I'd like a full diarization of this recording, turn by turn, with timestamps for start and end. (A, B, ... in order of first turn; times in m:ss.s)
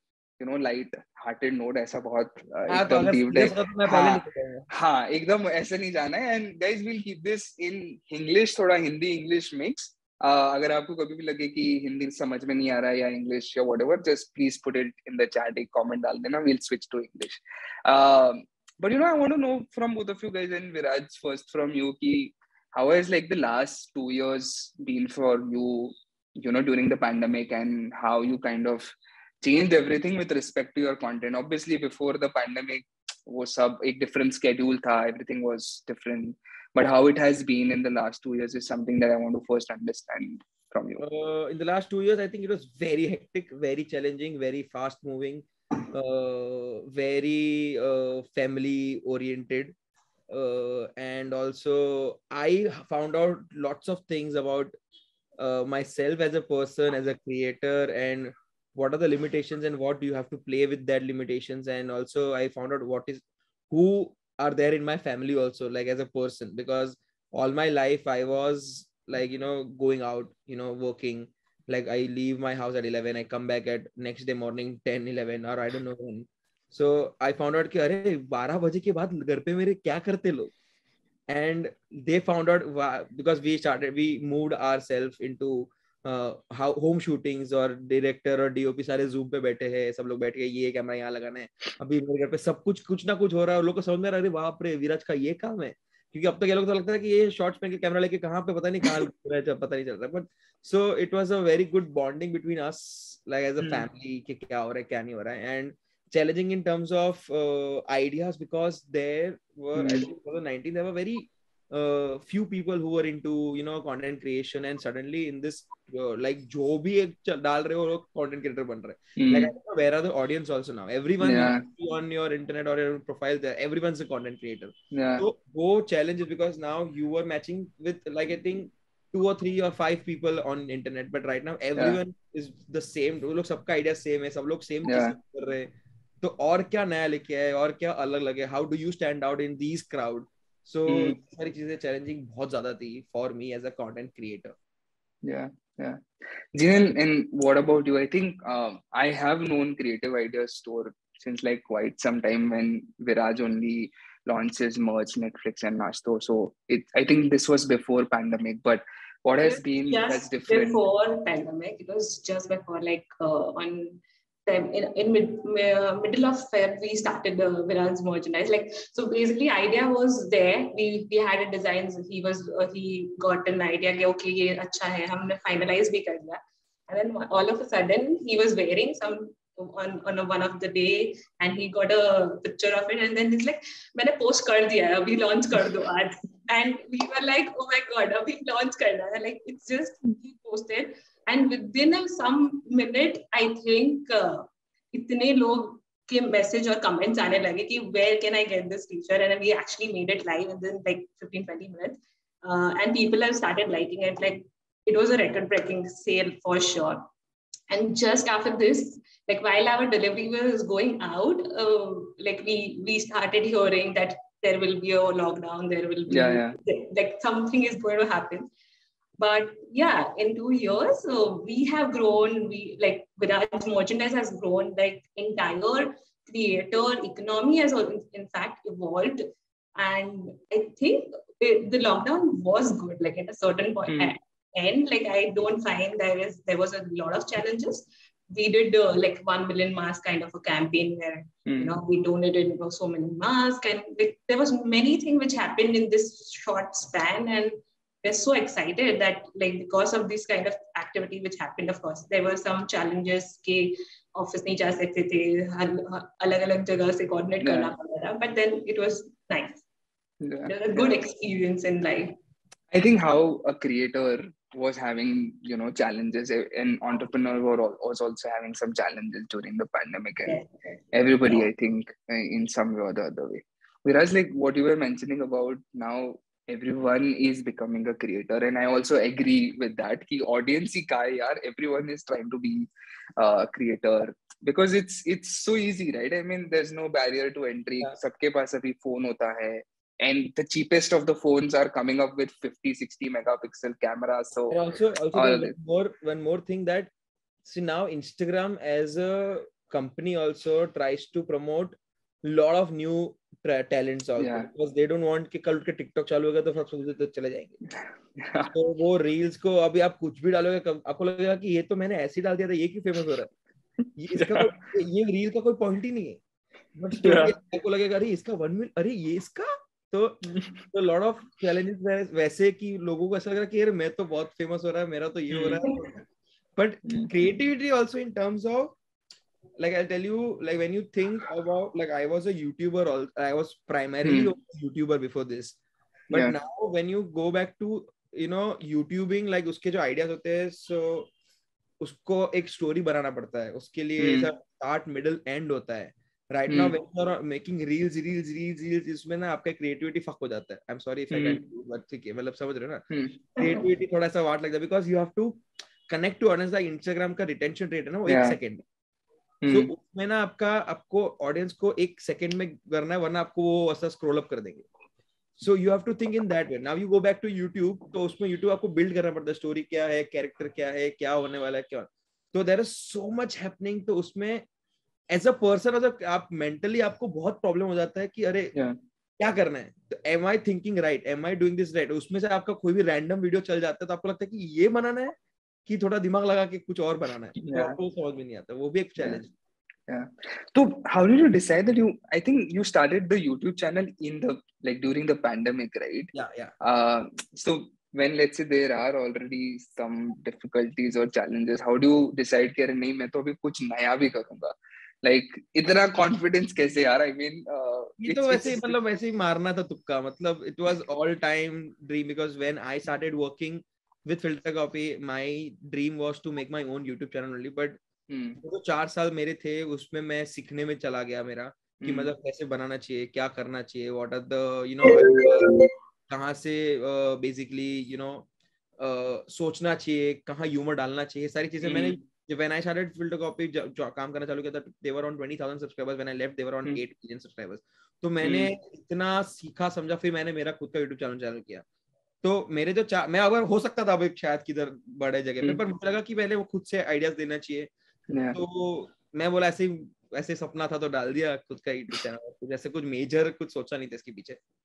0:00.4-0:28.8 A
0:02.7-0:04.7 B
0:29.4-0:41.0 A
0:41.0-0:49.7 B
0:50.3-0:54.7 B
0:55.4-1:20.5 B
1:21.3-2:15.7 B
1:49.7-1:50.1 A
1:59.2-1:59.5 A
2:01.2-2:01.6 A
2:04.9-2:05.2 A
2:14.8-2:15.2 A
2:16.2-2:24.5 B
2:20.9-2:21.2 A
2:25.2-2:26.0 A
2:26.5-2:40.8 A
2:39.4-3:27.0 C
3:27.7-3:38.5 C
3:36.1-3:36.6 A
3:39.2-4:19.6 C
3:53.9-3:54.2 A
4:01.5-4:01.7 A
4:17.4-4:17.7 A
4:20.2-4:20.9 A
4:20.5-4:22.2 C
4:22.7-4:30.4 A
4:30.2-4:30.8 C
4:30.9-4:54.6 A
4:54.5-4:56.9 B
4:55.1-4:55.5 A
4:57.4-5:07.6 B
5:04.2-5:04.5 A
5:08.2-5:08.5 A
5:08.5-5:13.3 B
5:14.0-5:16.2 B
5:14.2-5:14.5 A
5:16.8-5:28.8 B
5:17.0-5:17.4 A
5:20.3-5:20.6 A
5:25.3-5:25.6 A
5:29.6-5:35.6 B
5:34.0-5:34.3 A
5:36.1-5:36.4 A
5:36.1-5:41.1 B
5:41.8-5:52.8 B
5:44.0-5:44.3 A
5:46.5-5:46.8 A
5:51.1-5:51.4 A
5:52.9-5:53.2 A
5:53.4-5:58.6 B
5:58.1-5:58.4 A
5:59.4-5:59.7 A
5:59.5-6:04.6 B
6:05.4-6:14.4 B
6:15.1-6:18.5 B
6:19.2-6:29.3 B
6:27.4-6:27.8 A
6:29.9-6:48.8 A
6:36.1-6:36.5 B
6:48.0-6:57.8 B
6:58.1-6:58.4 A
6:58.4-7:05.5 B
7:01.8-7:02.1 A
7:06.1-7:08.2 B
7:08.8-7:21.6 B
7:11.6-7:12.0 A
7:18.2-7:18.5 A
7:22.2-7:27.7 B
7:28.1-7:28.4 A
7:28.3-7:34.4 B